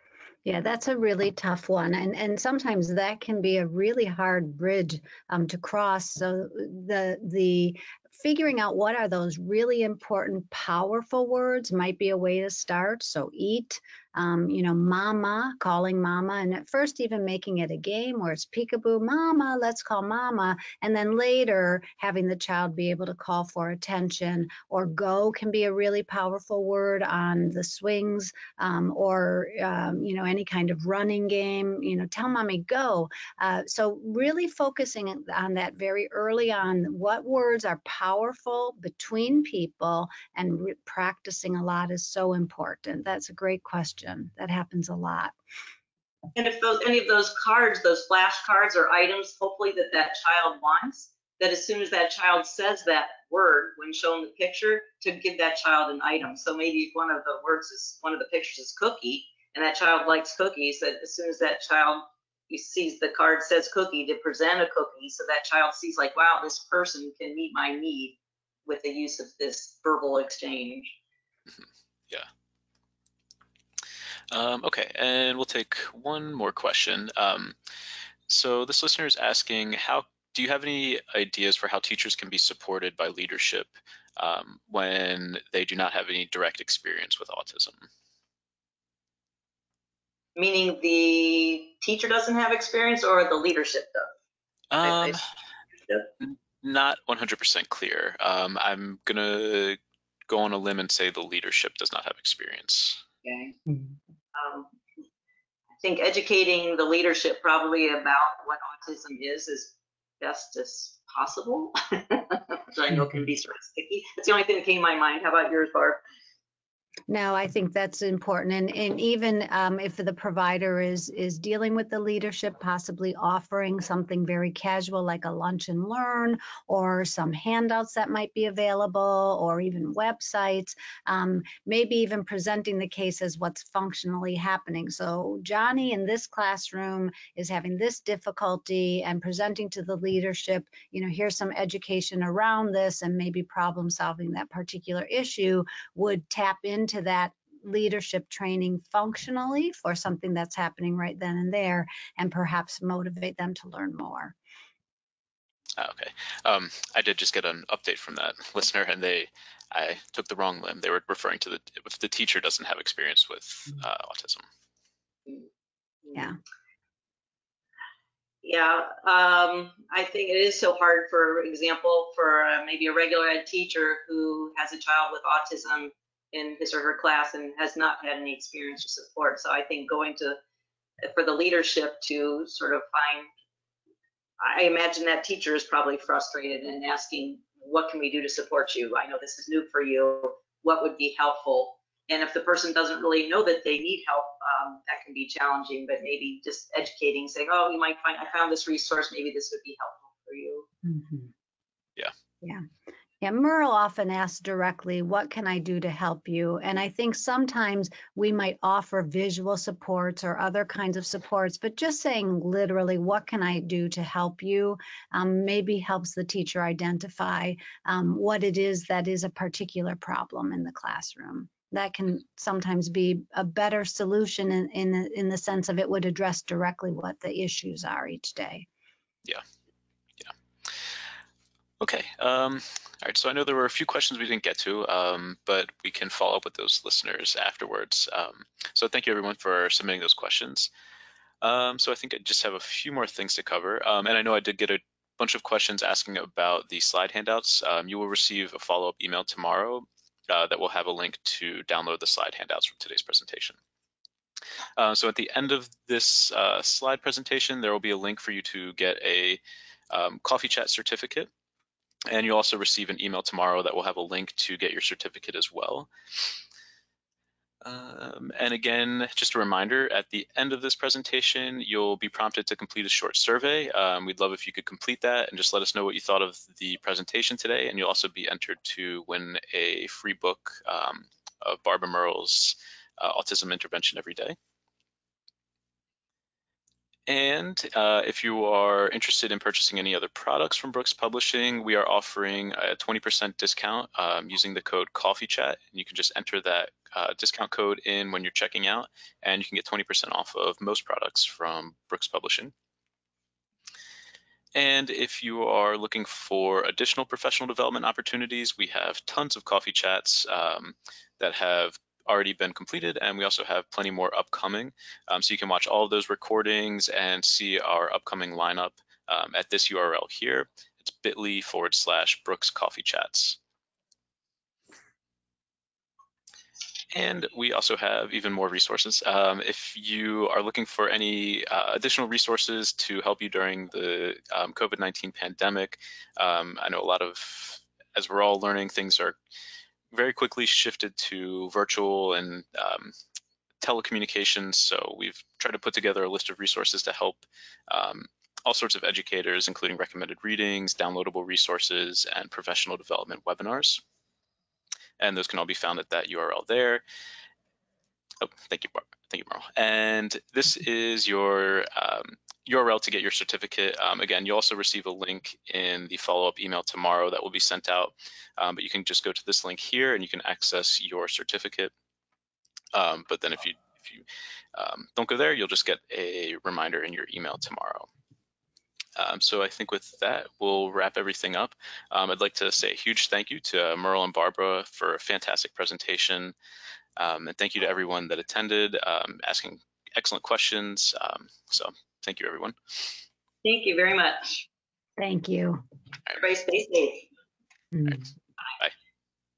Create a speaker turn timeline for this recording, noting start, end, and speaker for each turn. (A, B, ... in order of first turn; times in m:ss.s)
0:00.4-0:45.4 A
0:46.4-1:10.9 B
1:11.6-1:12.3 C
1:14.3-1:17.6 C
1:18.3-1:27.9 C
1:30.4-1:34.1 B
1:34.7-1:35.2 C
1:34.8-1:35.2 B
1:36.6-1:43.0 C
1:43.2-1:43.6 B
1:44.4-1:44.7 B
1:45.8-1:56.0 B
1:57.1-2:34.4 A
2:35.8-2:44.4 C
2:48.4-3:00.4 B
3:01.0-3:03.3 B
3:04.4-3:20.7 B
3:20.8-3:21.3 A
3:23.2-3:48.7 A
3:51.8-4:00.7 C
4:01.4-4:13.6 C
4:14.8-4:21.3 C
4:22.1-4:26.4 C
4:27.6-4:44.4 C
4:47.1-5:02.5 C
5:04.6-5:23.4 C
5:26.9-5:39.2 C
5:39.9-5:43.0 C
5:43.6-5:53.8 C
5:55.0-5:56.8 C
5:58.2-6:11.7 C
6:12.7-6:17.9 C
6:19.0-6:26.3 C
6:27.0-6:32.8 C
6:33.4-6:34.5 B
6:35.0-6:35.6 A
6:36.1-6:37.1 B
6:37.7-6:38.0 A